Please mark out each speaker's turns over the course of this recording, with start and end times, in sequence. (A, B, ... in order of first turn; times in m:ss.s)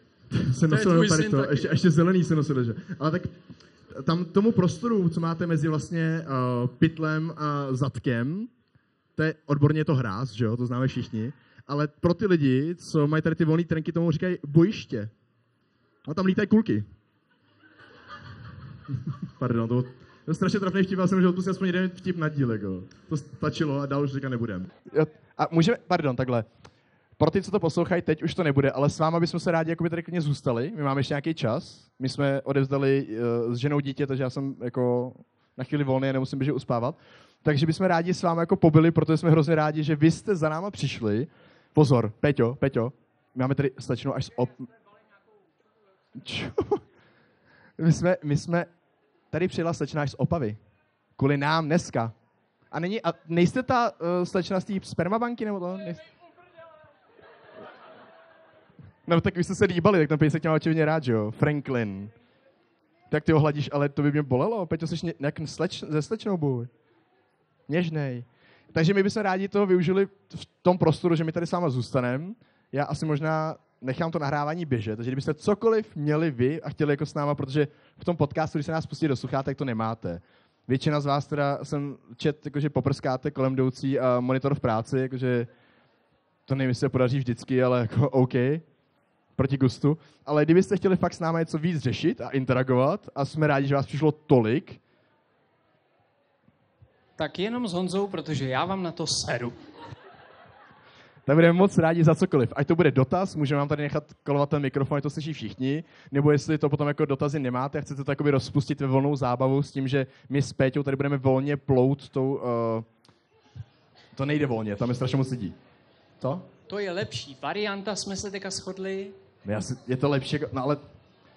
0:00.3-0:08.5 A
0:00.7-0:01.8 B
0:09.2-0:15.1 A
0:16.0-0:16.8 A
0:18.9-0:26.5 A
0:27.2-0:44.7 A
0:46.2-0:46.8 A
0:47.8-0:48.7 A
0:49.3-0:50.6 A
0:51.2-0:52.2 A
0:52.7-0:56.1 A
0:59.1-1:02.1 A
1:03.1-1:06.7 A
1:07.7-1:25.5 A
1:26.5-1:28.6 A
1:29.4-1:34.8 A
1:37.2-1:39.6 B
1:41.3-1:52.9 A
1:54.1-1:55.6 A
1:56.2-1:56.5 A
1:56.7-1:59.2 B
1:59.4-2:00.8 A